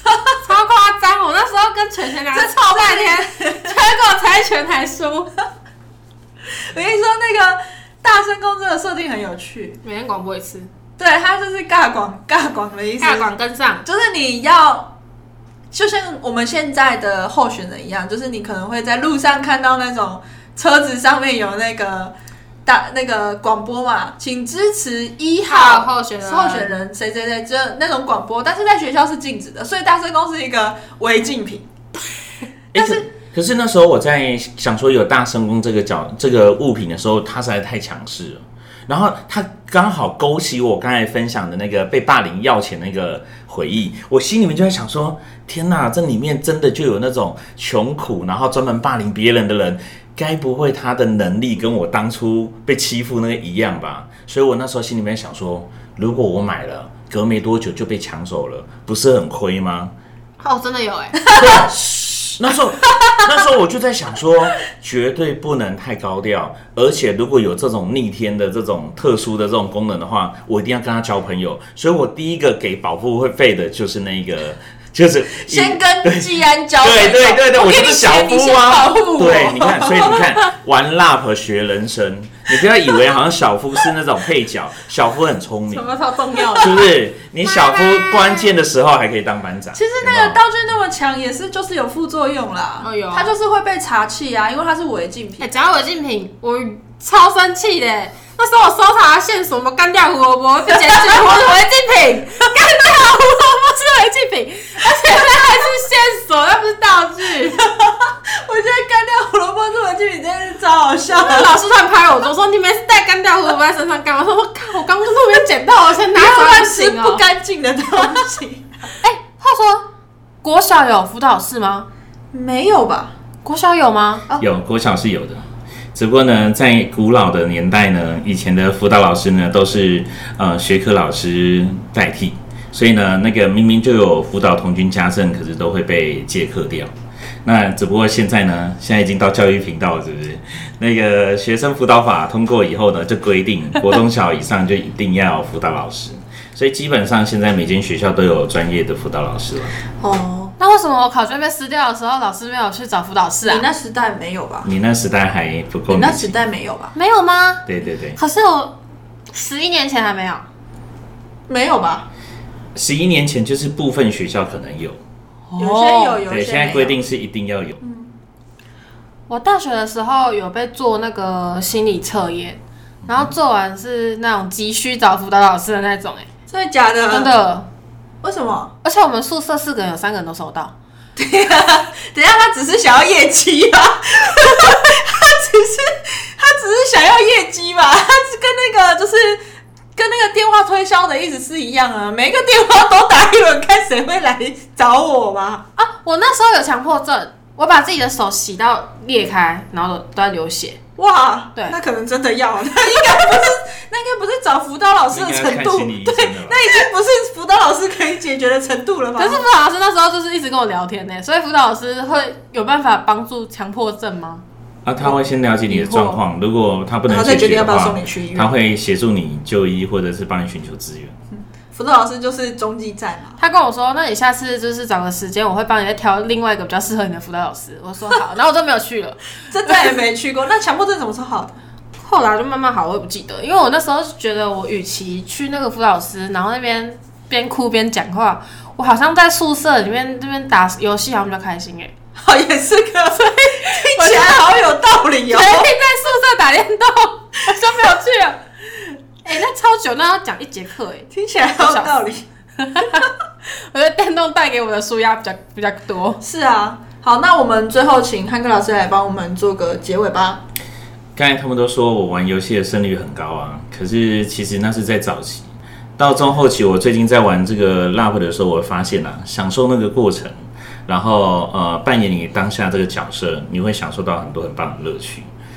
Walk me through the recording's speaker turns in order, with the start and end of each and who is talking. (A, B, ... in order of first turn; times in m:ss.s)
0:00.4-0:05.4 A
0:02.3-0:03.7 B
0:06.7-0:09.8 B
0:09.8-0:10.7 A
0:11.0-0:13.3 B
0:13.0-0:13.8 A
0:13.8-0:14.9 B
0:15.7-0:22.1 B
0:22.6-0:31.7 B
0:25.4-0:26.8 A
0:32.7-0:59.9 C
0:32.8-0:33.0 B
1:00.4-1:01.2 A
1:01.3-1:02.1 B
1:01.4-1:01.7 C
1:02.4-1:25.9 C
1:15.5-1:19.5 B
1:17.7-1:20.4 A
1:25.7-1:28.5 A
1:26.6-1:30.4 C
1:29.7-1:35.5 B
1:32.8-1:33.3 A
1:35.4-1:47.7 A
1:40.7-1:41.5 B
1:47.6-1:51.5 B
1:51.1-1:57.2 A
1:56.1-1:58.8 B
1:59.0-1:59.9 A
2:00.4-2:01.9 A
2:02.3-2:03.1 B
2:03.4-2:04.4 A
2:04.4-2:16.9 C
2:17.4-2:29.8 C
2:30.0-2:30.5 B
2:30.6-2:33.7 A
2:33.5-2:34.7 B
2:34.6-2:36.3 C
2:35.9-2:36.9 B
2:37.0-2:38.8 A
2:37.7-2:38.2 C
2:39.3-2:40.4 A
2:41.5-2:42.1 B
2:42.8-2:45.0 C
2:45.5-2:46.2 A
2:45.6-2:47.0 B
2:46.3-2:47.8 C
2:47.8-2:48.1 B
2:49.3-2:56.3 A
2:56.5-2:57.3 B
2:57.1-2:57.7 A
2:58.2-2:58.7 B
2:58.8-3:00.7 A
3:01.2-3:09.4 B
3:10.0-3:15.6 B
3:15.8-3:20.8 A
3:21.0-3:29.4 B
3:25.1-3:26.6 C
3:29.2-3:34.4 A
3:34.8-3:41.2 C
3:35.7-3:36.1 B
3:37.1-3:38.5 B
3:41.7-3:43.4 B
3:43.4-3:49.2 A
3:49.5-3:51.6 B
3:52.0-4:01.9 A
4:02.2-4:05.7 B
4:03.2-4:04.6 A
4:05.3-4:08.4 A
4:07.5-4:07.8 B
4:09.2-4:12.0 A
4:11.1-4:12.2 B
4:12.6-4:16.2 A
4:16.2-4:20.4 B
4:21.2-4:30.3 C
4:30.9-4:35.3 C